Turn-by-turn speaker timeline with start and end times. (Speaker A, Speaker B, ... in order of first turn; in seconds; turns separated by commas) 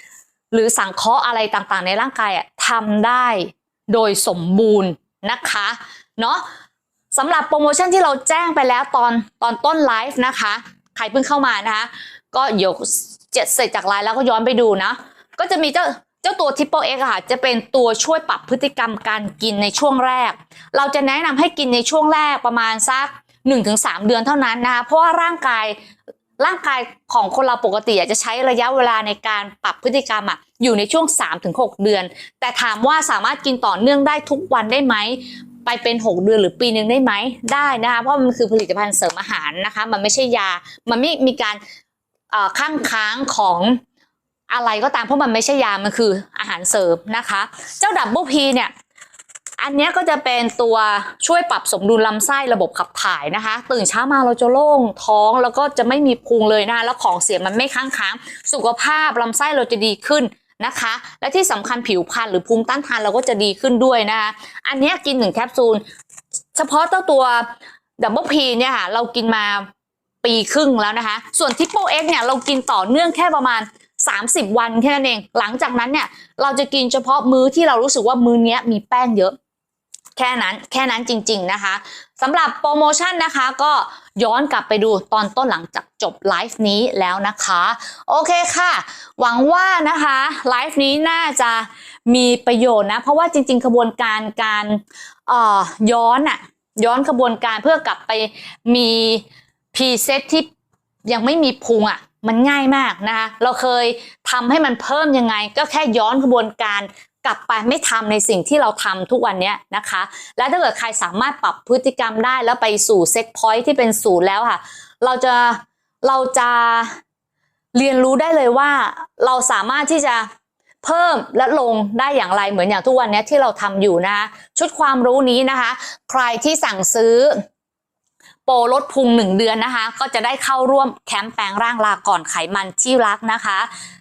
Speaker A: 0.5-6.4, Speaker A: 7.1-25.8, Speaker A: 26.4-41.6, Speaker A: 42.3-43.8, Speaker A: 44.5-48.7, Speaker A: 49.6-65.8, Speaker A: 66.5-67.5, Speaker A: 68.0-69.7, Speaker A: 70.2-79.3, Speaker A: 80.2-100.5, Speaker A: 101.1-117.0, Speaker A: 117.7-120.3, Speaker A: 120.8-127.4, Speaker A: 128.5-133.7